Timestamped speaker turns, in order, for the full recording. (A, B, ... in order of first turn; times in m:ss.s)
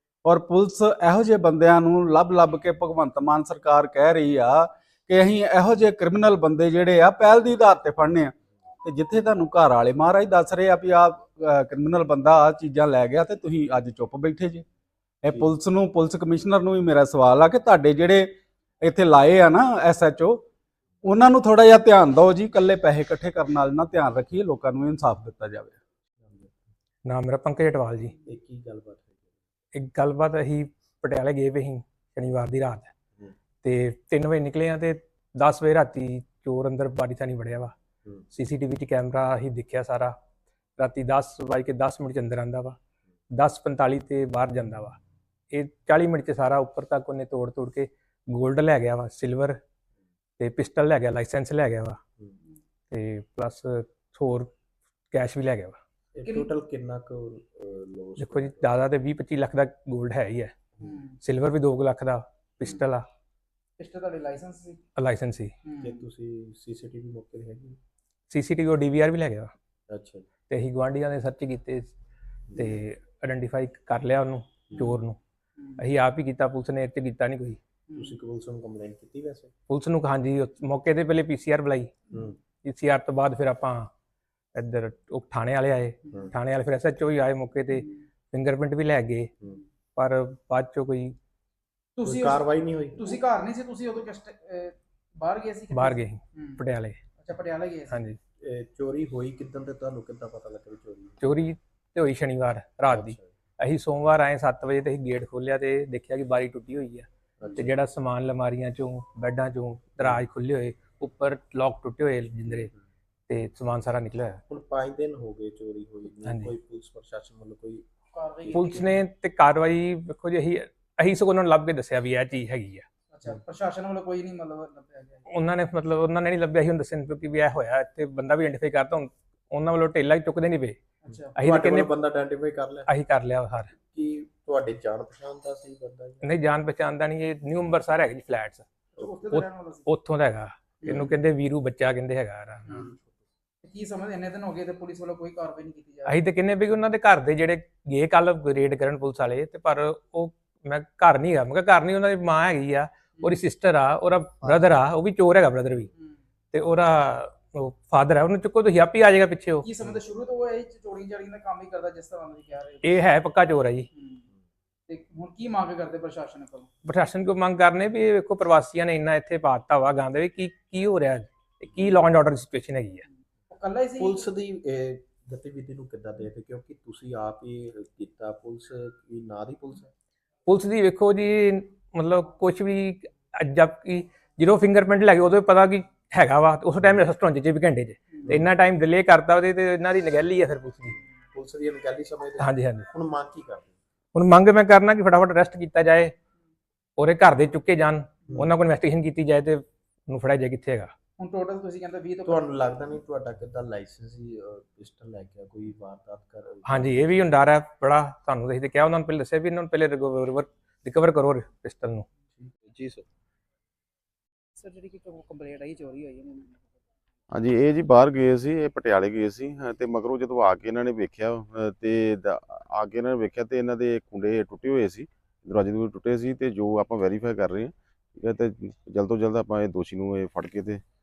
0:00.2-0:14.6 A
0:15.2-0:20.4 A
0:21.0-0:25.8 A
0:26.2-0:26.5 B
0:27.0-0:28.1 C
0:28.2-0:29.3 B
0:29.7-0:32.9 C
0:33.6-0:37.7 C
0:38.3-0:40.1 C
0:40.8-0:42.8 C
0:43.3-0:45.0 C
0:45.5-0:49.6 C
0:50.4-0:52.0 C
0:52.9-0:54.5 C
0:55.1-0:55.8 C
0:56.2-0:58.8 B
0:58.2-1:00.5 C
1:00.8-1:01.0 B
1:00.8-1:01.1 D
1:01.2-1:03.0 C
1:03.8-1:04.8 D
1:05.0-1:05.5 C
1:05.6-1:06.0 D
1:05.8-1:07.8 B
1:08.3-1:09.5 C
1:09.9-1:10.2 B
1:10.5-1:11.9 C
1:12.5-1:12.8 B
1:12.6-1:15.2 C
1:14.7-1:15.0 B
1:15.8-1:17.6 C
1:17.9-1:18.2 D
1:17.9-1:19.5 B
1:19.7-1:22.0 C
1:22.6-1:23.9 C
1:24.5-1:29.3 C
1:30.0-1:31.2 C
1:32.0-1:36.6 D
1:32.0-1:33.2 B
1:35.7-1:37.0 C
1:37.2-1:38.0 D
1:37.9-1:38.2 C
1:38.4-1:41.2 B
1:41.2-1:52.7 C
1:42.9-1:43.2 B
1:47.4-1:47.7 B
1:53.3-1:54.4 C
1:54.5-1:57.8 B
1:56.2-1:56.5 C
1:58.1-1:59.0 D
1:58.5-2:02.9 C
2:03.1-2:05.2 D
2:05.3-2:10.8 C
2:11.1-2:12.9 B
2:11.4-2:11.9 C
2:12.9-2:13.7 C
2:13.9-2:16.3 B
2:16.2-2:18.7 C
2:19.0-2:19.8 D
2:19.2-2:22.9 C
2:20.9-2:21.1 B
2:22.7-2:23.0 B
2:23.6-2:26.2 D
2:26.0-2:35.9 C
2:34.4-2:34.7 D
2:36.5-2:39.7 C
2:39.6-2:42.9 D
2:42.8-2:43.9 C
2:43.9-2:44.2 D
2:44.9-2:46.7 D
2:46.8-2:53.0 C
2:53.5-2:54.2 D
2:54.0-2:59.9 B
3:00.4-3:11.0 C
3:11.3-3:13.8 B
3:12.4-3:12.9 C
3:14.1-3:16.1 C
3:17.0-3:20.9 C
3:18.3-3:18.5 B
3:21.2-3:22.4 D
3:22.2-3:27.3 B
3:26.6-3:32.1 C
3:32.4-3:33.0 B
3:34.6-3:36.6 D
3:37.3-3:50.8 E